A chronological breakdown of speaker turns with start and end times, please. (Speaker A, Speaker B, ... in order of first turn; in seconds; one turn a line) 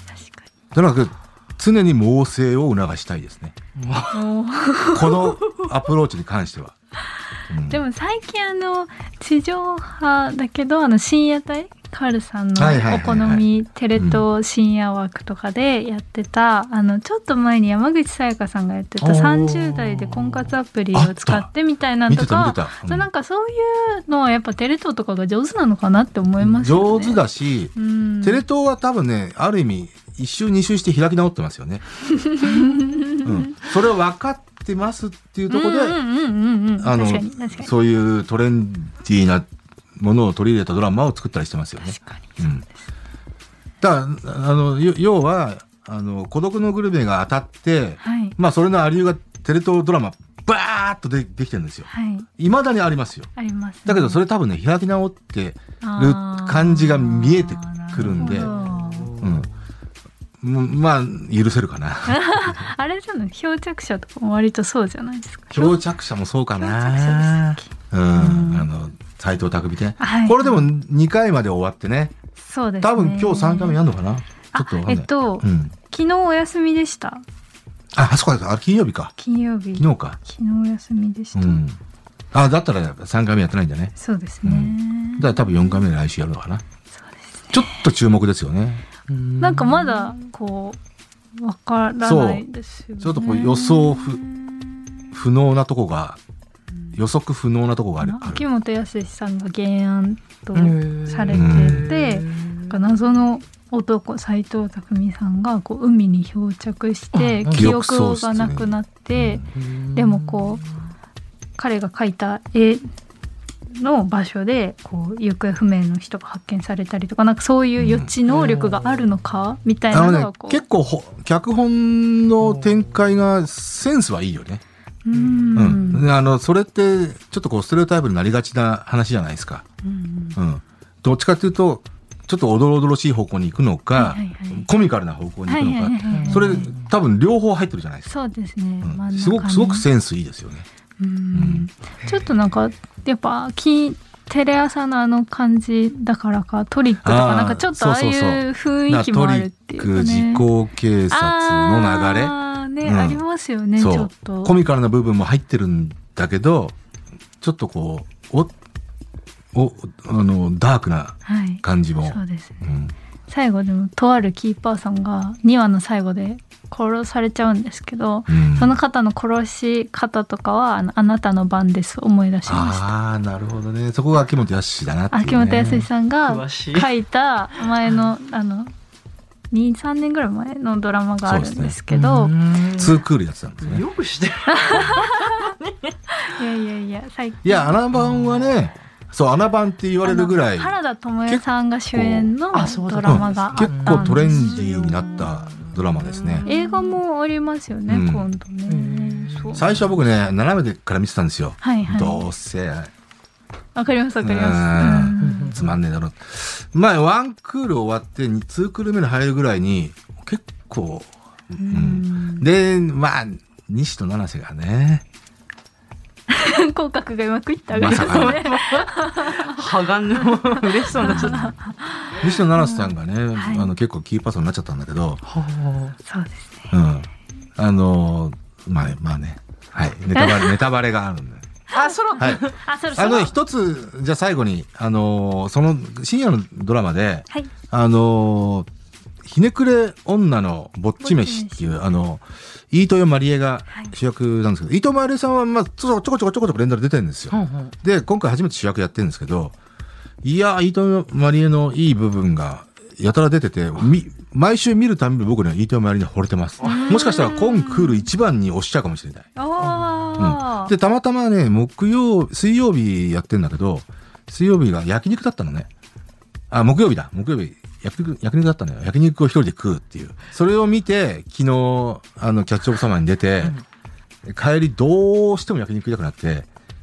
Speaker A: 0.1-0.5
Speaker B: 0.7-3.5
Speaker C: 3.8-4.3
Speaker A: 4.1-5.6
Speaker B: 4.9-6.8
Speaker B: 7.5-7.8
Speaker A: 7.7-27.2
Speaker B: 12.6-14.2
Speaker B: 19.0-21.5
Speaker B: 22.1-23.1
Speaker B: 26.4-31.8
Speaker A: 27.8-28.4
Speaker A: 32.1-33.5
Speaker B: 33.2-36.0
Speaker A: 35.5-37.7
Speaker B: 36.8-42.6
Speaker A: 41.9-42.5
Speaker B: 43.8-53.3
Speaker A: 48.0-48.4
Speaker A: 51.9-52.3
Speaker A: 53.4-54.2
Speaker B: 53.9-58.5
Speaker A: 55.8-59.2
Speaker C: 58.1-59.5
Speaker B: 59.2-59.5
Speaker B: 60.4-62.7
Speaker A: 62.1-65.8
Speaker B: 65.5-72.2
Speaker A: 66.6-68.7
Speaker A: 70.0-70.7
Speaker A: 72.4-73.8
Speaker B: 72.8-75.8
Speaker A: 74.5-77.2
Speaker B: 77.9-79.1
Speaker A: 79.2-81.6
Speaker B: 79.8-80.2
Speaker B: 81.3-81.8
Speaker B: 82.3-83.9
Speaker A: 84.0-85.8
Speaker B: 84.4-86.6
Speaker A: 87.0-87.7
Speaker B: 87.5-88.8
Speaker C: 89.1-90.2
Speaker A: 89.4-90.8
Speaker A: 91.4-95.2
Speaker B: 92.0-92.5
Speaker B: 93.0-94.2
Speaker B: 95.1-96.2
Speaker B: 97.0-98.4
Speaker A: 98.0-110.7
Speaker C: 100.5-102.8
Speaker B: 101.3-101.9
Speaker C: 107.1-107.7
Speaker B: 107.5-109.5
Speaker C: 109.5-110.9
Speaker A: 111.6-112.8
Speaker A: 113.8-120.6
Speaker B: 117.8-118.1
Speaker C: 118.3-119.1
Speaker B: 119.9-124.6
Speaker A: 125.0-126.1
Speaker C: 125.1-125.8
Speaker B: 125.6-129.7
Speaker A: 129.8-130.4
Speaker B: 130.4-138.1
Speaker A: 133.9-134.7
Speaker A: 135.5-136.7
Speaker C: 136.1-136.9
Speaker A: 138.1-139.8
Speaker B: 138.8-140.7
Speaker A: 141.0-150.5
Speaker B: 141.3-141.7
Speaker C: 142.0-142.3
Speaker B: 147.0-153.2
Speaker A: 151.1-154.6
Speaker B: 153.8-156.8
Speaker B: 157.4-158.5
Speaker B: 159.5-162.9
Speaker A: 161.3-162.7
Speaker A: 163.3-172.8
Speaker B: 168.3-168.7
Speaker B: 172.5-175.9
Speaker A: 175.1-178.7
Speaker C: 176.2-176.9
Speaker A: 179.5-182.3
Speaker B: 181.2-181.8
Speaker C: 181.9-183.0
Speaker B: 182.8-183.8
Speaker C: 183.6-185.9
Speaker A: 184.6-185.5
Speaker A: 186.2-187.8
Speaker B: 187.4-190.8
Speaker C: 188.0-188.5
Speaker A: 190.0-194.7
Speaker B: 191.3-192.3
Speaker C: 192.5-196.9
Speaker B: 193.1-196.5
Speaker A: 196.4-199.8
Speaker B: 197.9-198.3
Speaker C: 198.7-199.9
Speaker B: 199.5-202.9
Speaker A: 201.6-202.2
Speaker A: 203.8-205.7
Speaker B: 204.2-215.0
Speaker C: 205.2-205.7
Speaker A: 211.6-212.5
Speaker A: 216.3-219.6
Speaker B: 217.7-218.4
Speaker C: 217.8-221.5
Speaker A: 220.3-223.7
Speaker B: 221.1-221.4
Speaker B: 222.2-225.2
Speaker C: 225.2-226.0
Speaker A: 226.1-226.7
Speaker B: 226.7-231.4
Speaker A: 230.2-230.6
Speaker C: 231.7-232.6
Speaker A: 231.8-233.3
Speaker B: 232.2-232.4
Speaker B: 232.9-238.7
Speaker B: 239.2-249.5
Speaker A: 241.0-241.8
Speaker C: 247.3-247.7
Speaker B: 250.2-259.3
Speaker C: 256.6-257.1
Speaker A: 256.7-258.1
Speaker A: 259.4-260.7
Speaker C: 259.6-260.3
Speaker B: 260.2-265.7
Speaker B: 266.5-273.6
Speaker B: 274.3-276.5